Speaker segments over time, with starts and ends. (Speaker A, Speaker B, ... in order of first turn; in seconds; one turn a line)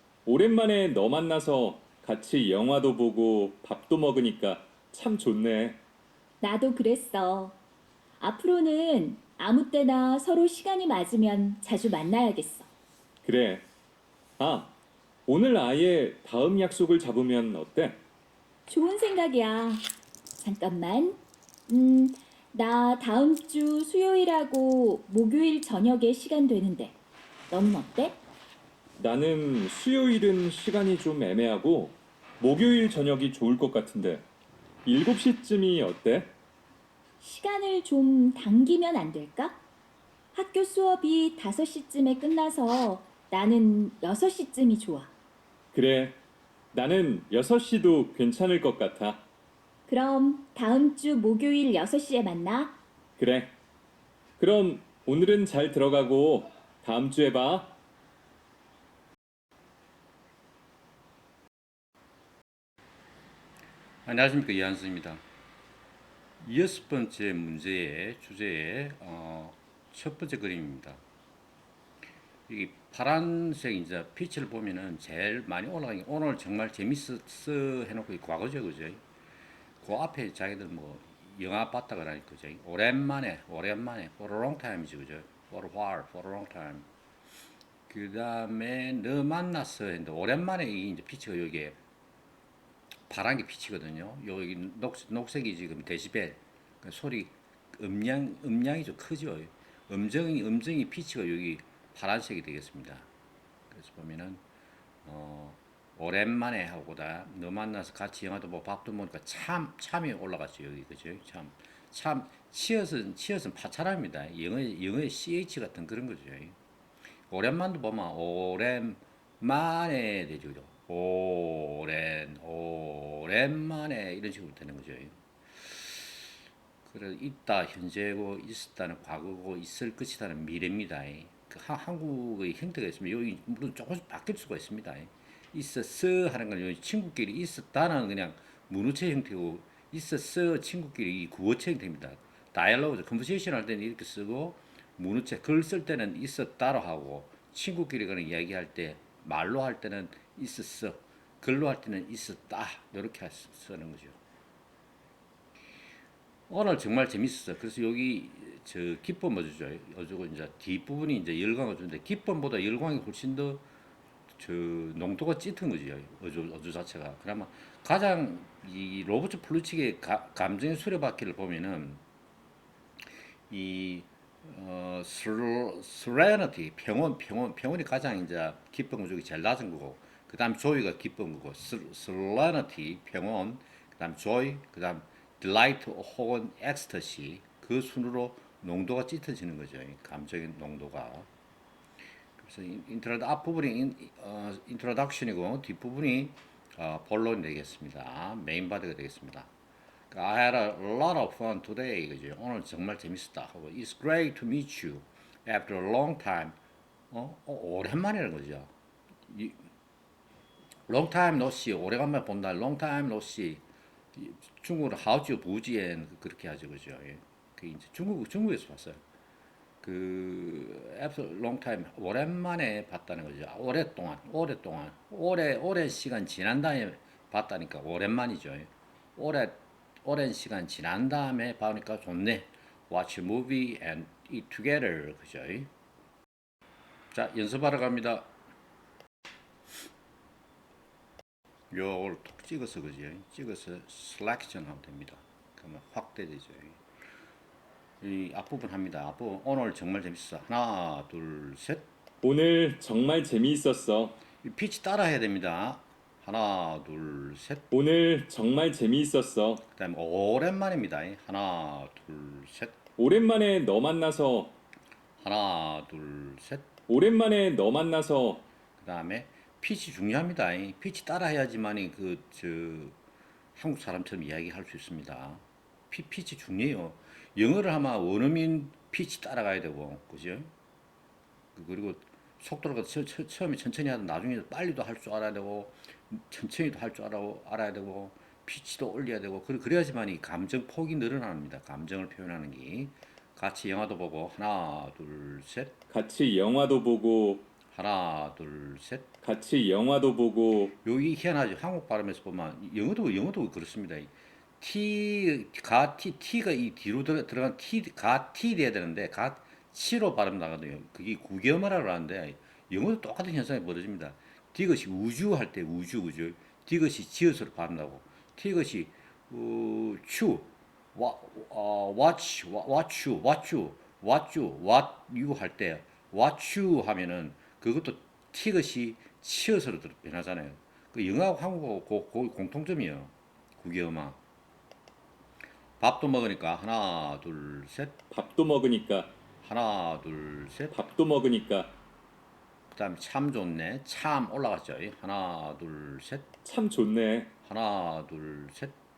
Speaker A: 0.2-5.8
Speaker B: 6.4-7.6
Speaker B: 8.2-12.7
Speaker A: 13.2-13.6
Speaker A: 14.4-14.7
Speaker A: 15.3-18.0
Speaker B: 18.7-27.0
Speaker B: 27.5-28.2
Speaker A: 29.0-34.2
Speaker A: 34.8-36.3
Speaker B: 37.2-39.6
Speaker B: 40.3-45.1
Speaker A: 45.7-46.1
Speaker A: 46.7-49.2
Speaker B: 49.9-52.8
Speaker A: 53.2-53.5
Speaker A: 54.4-57.7
Speaker C: 64.0-65.2
Speaker C: 66.4-71.0
Speaker C: 72.5-79.0
Speaker C: 79.8-86.9
Speaker C: 87.9-91.8
Speaker C: 93.1-103.1
Speaker C: 103.7-104.4
Speaker C: 105.0-116.5
Speaker C: 117.3-126.3
Speaker C: 126.8-154.2
Speaker C: 156.5-163.6
Speaker C: 164.3-172.0
Speaker C: 173.5-191.3
Speaker C: 192.4-199.5
Speaker C: 200.1-206.6
Speaker C: 207.1-208.7
Speaker C: 209.3-209.6
Speaker C: 210.9-213.6
Speaker C: 214.1-219.0
Speaker C: 219.8-235.7
Speaker C: 237.1-238.3
Speaker C: 241.7-246.8
Speaker C: 248.0-251.8
Speaker A: 252.2-254.2
Speaker C: 254.4-257.7
Speaker A: 257.7-259.6
Speaker C: 259.7-262.8
Speaker A: 263.0-264.5
Speaker C: 265.2-266.7
Speaker A: 266.9-268.4
Speaker C: 268.8-273.0
Speaker C: 273.6-280.5
Speaker C: 281.5-295.7
Speaker A: 295.9-297.5
Speaker C: 297.7-299.1
Speaker A: 299.2-300.7
Speaker C: 300.8-334.2
Speaker C: 335.8-338.0
Speaker A: 338.1-339.1
Speaker C: 339.4-340.7
Speaker A: 340.7-341.7
Speaker C: 342.7-346.3
Speaker A: 346.4-347.3
Speaker C: 347.4-348.7